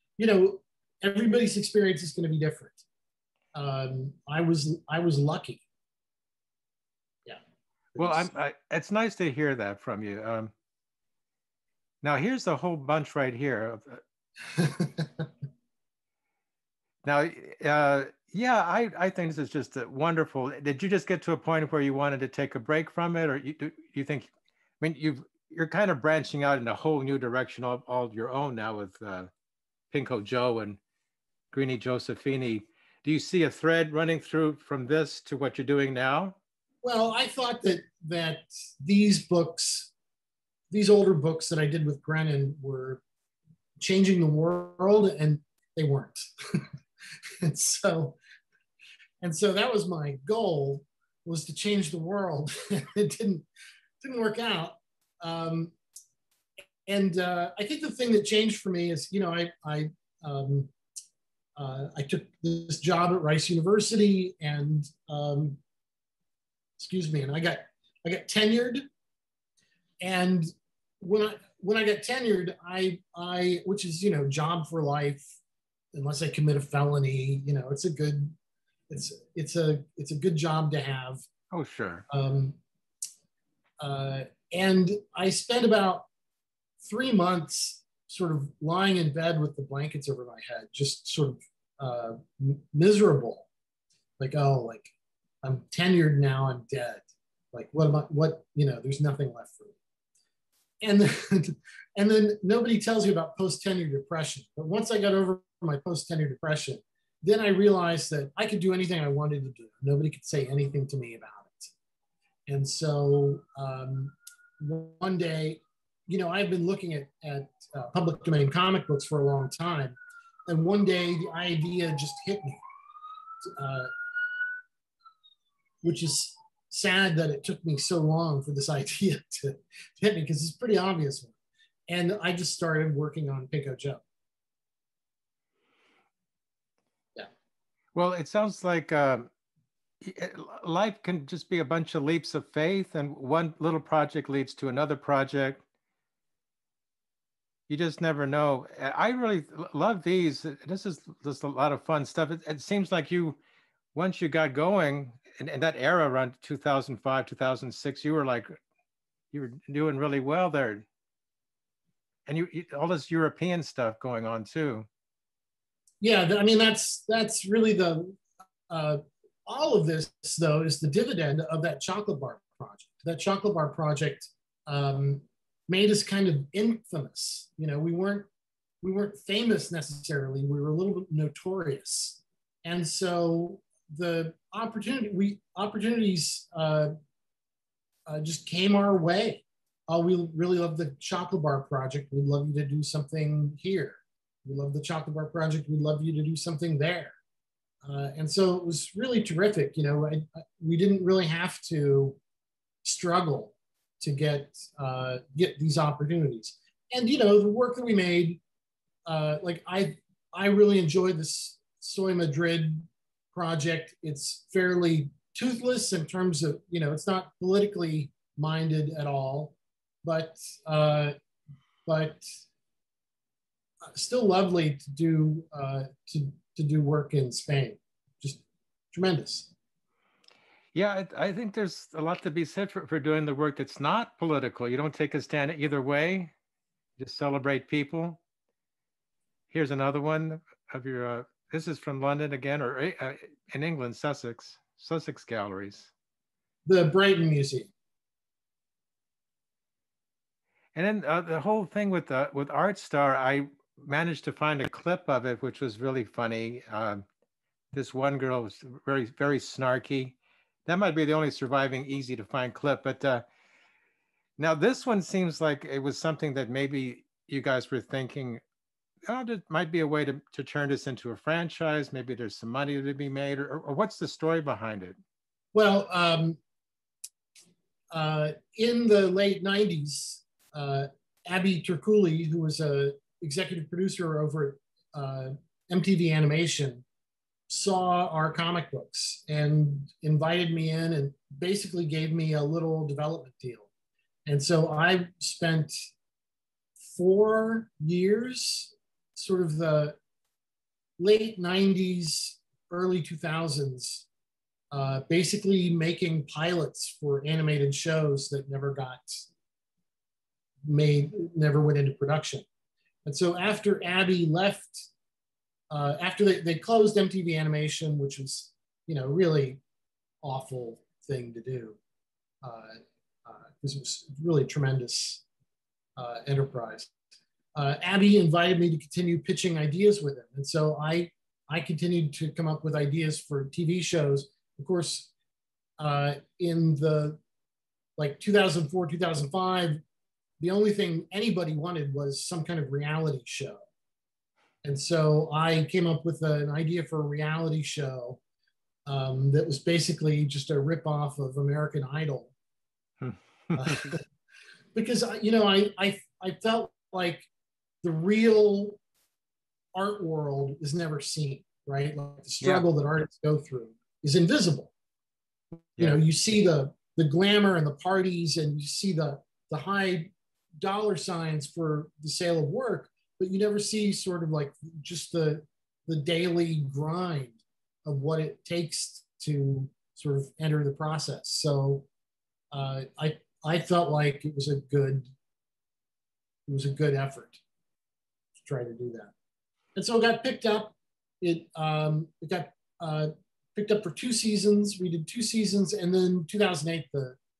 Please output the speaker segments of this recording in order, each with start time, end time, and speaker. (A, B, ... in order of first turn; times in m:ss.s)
0:00.2-0:02.8 A
0:03.6-0:05.6 A
0:08.0-0:08.3 A
0:08.0-0:10.5 B
0:12.0-0:14.0 B
0:14.6-0:15.2 A
0:17.0-0:29.3 B
0:29.9-0:30.8 B
0:31.5-0:36.4 B
0:36.8-0:39.9 A
0:40.7-0:43.0 A
0:43.8-0:46.6 A
0:47.4-0:48.2 A
0:49.2-0:53.5 A
0:54.0-0:55.7 A
0:56.9-1:00.7 A
1:01.6-1:05.6 A
1:06.8-1:08.8 A
1:10.0-1:10.5 A
1:11.0-1:15.2 A
1:15.9-1:18.4 A
1:18.9-1:21.2 A
1:21.5-1:22.0 B
1:22.1-1:22.6 A
1:23.8-1:26.1 A
1:26.8-1:33.5 A
1:34.2-1:34.9 A
1:35.4-1:39.8 A
1:40.8-1:51.7 A
1:52.5-2:02.6 A
2:03.4-2:03.9 A
2:05.8-2:11.3 A
2:11.9-2:14.0 A
2:18.0-2:19.3 B
2:20.0-2:25.6 B
2:27.7-2:33.4 B
2:33.9-2:38.5 B
2:39.3-2:40.8 B
2:42.3-2:44.9 B
2:46.0-2:58.3 A
2:58.8-3:06.9 A
3:08.1-3:17.2 A
3:17.8-3:22.2 A
3:22.8-3:28.4 A
3:29.1-3:41.1 A
3:41.9-3:42.3 A
3:43.9-3:49.5 A
3:50.7-3:56.3 B
3:57.0-3:58.2 B
3:59.5-4:05.9 B
4:06.7-4:07.7 A
4:10.8-4:17.0 B
4:17.7-4:23.2 B
4:24.4-4:28.4 B
4:29.1-4:35.0 B
4:35.6-4:36.4 A
4:37.9-4:46.8 A
4:47.5-4:53.7 A
4:54.3-4:55.9 A
4:56.9-5:00.0 A
5:01.0-5:04.1 A
5:04.7-5:09.3 A
5:10.7-5:12.5 A
5:13.0-5:14.9 A
5:15.7-5:19.6 A
5:20.2-5:21.8 A
5:22.4-5:25.2 A
5:26.0-5:26.9 A
5:27.6-5:35.1 A
5:35.8-5:37.2 A
5:38.0-5:39.8 A
5:40.4-5:43.6 A
5:44.6-5:48.2 A
5:48.9-5:52.3 A
5:53.0-5:53.9 B
5:53.6-5:54.0 A
5:54.8-5:57.3 A
5:57.8-5:58.8 A
5:59.8-6:04.7 A
6:05.8-6:21.9 A
6:22.5-6:25.1 A
6:26.5-6:27.4 A
6:28.4-6:29.1 A
6:29.8-6:37.2 A